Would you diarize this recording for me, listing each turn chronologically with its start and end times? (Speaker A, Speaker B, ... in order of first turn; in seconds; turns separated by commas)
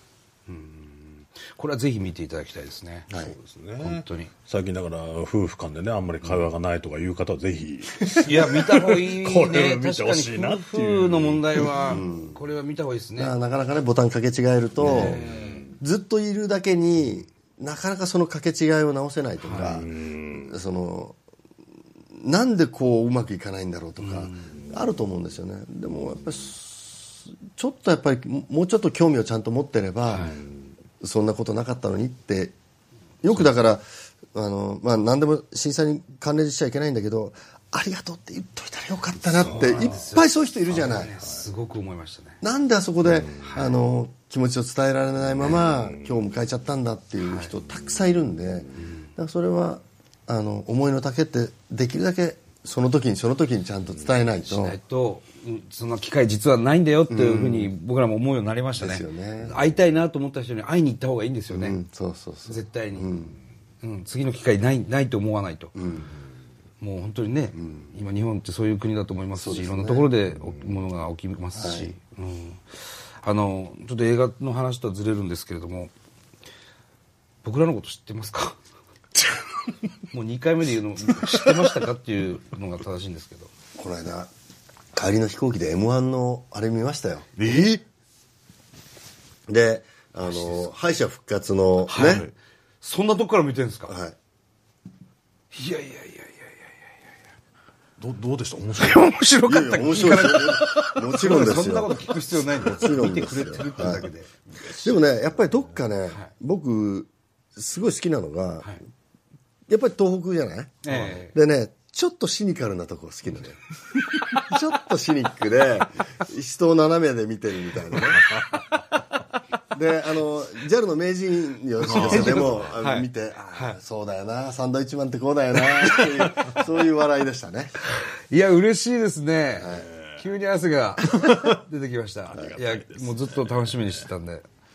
Speaker A: 0.5-3.1, Speaker B: 3.1-3.4, Speaker C: 3.1-11.8, Speaker A: 3.8-4.3, Speaker A: 8.2-13.4, Speaker B: 11.9-12.4, Speaker B: 13.2-15.2, Speaker A: 14.8-15.7, Speaker C: 14.8-15.8, Speaker B: 15.8-19.9, Speaker A: 19.4-19.8, Speaker C: 19.5-20.5, Speaker B: 20.4-21.2, Speaker B: 22.1-30.4, Speaker A: 24.0-24.5, Speaker A: 30.1-30.4, Speaker B: 31.0-32.5, Speaker B: 33.2-41.1, Speaker A: 39.2-42.4, Speaker C: 39.5-39.9, Speaker B: 42.4-54.8, Speaker C: 43.1-43.5, Speaker A: 43.4-43.7, Speaker A: 47.2-47.5, Speaker A: 54.5-61.8, Speaker B: 57.1-57.7, Speaker B: 58.8-59.6, Speaker B: 61.5-63.4, Speaker A: 62.5-63.3, Speaker A: 63.8-65.8, Speaker B: 65.8-66.1, Speaker A: 66.8-72.6, Speaker B: 69.4-70.1, Speaker B: 71.6-71.9, Speaker A: 73.2-75.9, Speaker A: 77.4-78.6, Speaker A: 80.1-83.5, Speaker B: 83.8-84.3, Speaker B: 84.9-87.8, Speaker C: 87.4-87.8, Speaker B: 89.5-92.3, Speaker A: 91.9-92.3, Speaker C: 92.0-92.3, Speaker A: 92.8-93.9, Speaker B: 93.9-94.2, Speaker A: 95.5-96.8, Speaker C: 98.0-99.0, Speaker A: 98.8-104.3, Speaker B: 99.5-104.1, Speaker C: 102.9-103.8, Speaker C: 104.7-105.8, Speaker B: 104.8-108.7, Speaker B: 109.7-113.6, Speaker A: 110.8-111.4, Speaker C: 110.9-111.2, Speaker B: 114.3-118.5, Speaker C: 118.0-118.6, Speaker B: 119.7-127.7, Speaker C: 121.8-122.8, Speaker A: 122.0-123.8, Speaker A: 128.0-134.4, Speaker B: 129.6-129.9, Speaker C: 129.7-130.2, Speaker C: 131.1-131.5, Speaker C: 132.3-134.1